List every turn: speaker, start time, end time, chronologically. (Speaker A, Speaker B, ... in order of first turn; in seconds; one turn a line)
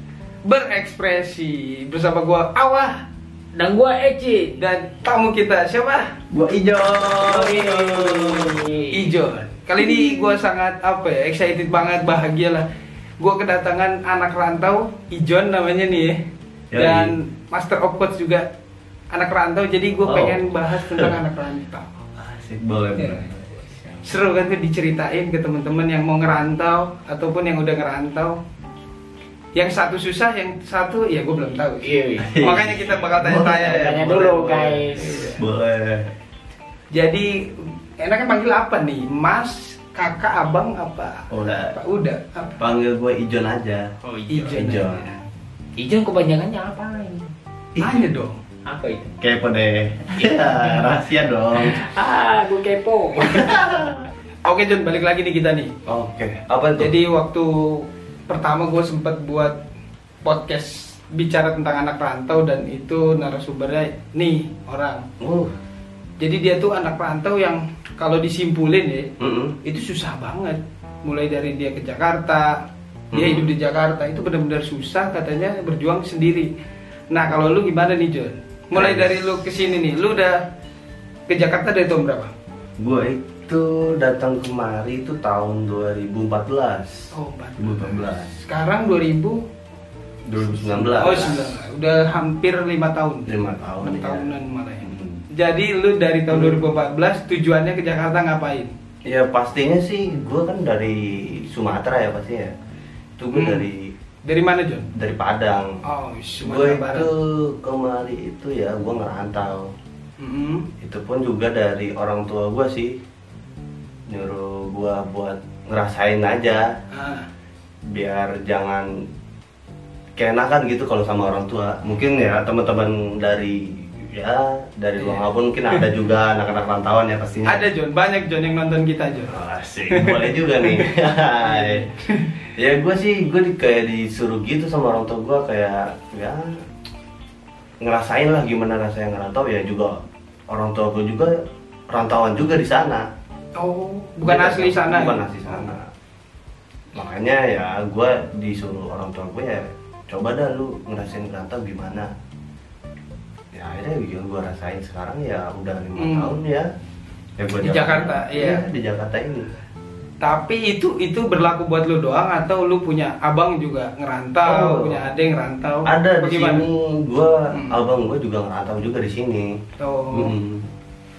Speaker A: 0.4-3.0
Speaker B: 3.5-4.6
Speaker A: 4.5-6.1
Speaker C: 6.3-8.6
Speaker B: 7.1-8.9
Speaker A: 8.9-12.7
Speaker A: 13.2-16.2
Speaker C: 16.7-17.1
Speaker A: 16.7-18.5
Speaker A: 19.1-21.9
Speaker C: 20.1-21.1
Speaker C: 22.2-23.5
Speaker A: 22.9-23.2
Speaker A: 24.0-28.4
Speaker A: 29.5-34.2
Speaker B: 31.8-35.4
Speaker C: 32.2-36.1
Speaker A: 35.0-35.4
Speaker A: 36.9-42.6
Speaker C: 41.3-41.7
Speaker C: 42.6-43.9
Speaker B: 44.0-44.5
Speaker A: 44.3-45.2
Speaker C: 44.5-45.0
Speaker B: 45.8-47.3
Speaker C: 47.7-48.0
Speaker A: 47.8-48.4
Speaker B: 48.6-49.1
Speaker C: 49.2-51.8
Speaker B: 50.2-50.9
Speaker B: 51.6-53.7
Speaker C: 53.2-54.0
Speaker A: 54.4-55.7
Speaker C: 55.9-56.9
Speaker A: 56.8-59.6
Speaker A: 60.2-65.0
Speaker C: 65.2-65.5
Speaker A: 66.2-69.1
Speaker C: 69.2-69.5
Speaker A: 69.6-72.6
Speaker C: 73.1-73.5
Speaker A: 73.1-76.5
Speaker A: 77.1-80.4
Speaker C: 78.7-79.4
Speaker A: 81.3-82.3
Speaker C: 82.8-88.3
Speaker A: 87.1-89.4
Speaker C: 90.3-91.6
Speaker A: 90.6-93.3
Speaker C: 93.3-94.3
Speaker A: 93.8-98.7
Speaker C: 94.8-95.2
Speaker C: 96.3-96.6
Speaker C: 99.0-102.5
Speaker C: 103.2-103.9
Speaker A: 103.3-103.6
Speaker A: 104.2-104.9
Speaker C: 104.9-105.8
Speaker A: 105.8-107.1
Speaker C: 106.4-109.7
Speaker A: 110.2-110.7
Speaker C: 110.8-112.9
Speaker C: 114.1-116.7
Speaker A: 116.9-117.3
Speaker C: 117.9-118.9
Speaker C: 120.2-127.7
Speaker A: 125.0-125.2
Speaker A: 127.5-129.4
Speaker C: 129.3-131.8
Speaker A: 129.9-130.8
Speaker A: 131.4-132.3
Speaker C: 132.6-136.5
Speaker C: 137.8-140.0
Speaker C: 140.5-141.3
Speaker C: 141.9-143.0
Speaker A: 143.6-145.7
Speaker C: 144.2-145.8
Speaker C: 146.9-152.1
Speaker C: 153.5-156.7
Speaker A: 155.9-156.3
Speaker C: 157.4-159.5
Speaker A: 157.6-158.6
Speaker A: 160.2-166.7
Speaker C: 164.4-165.0
Speaker C: 165.8-169.6
Speaker A: 167.5-167.8
Speaker A: 169.8-170.3
Speaker C: 170.1-170.7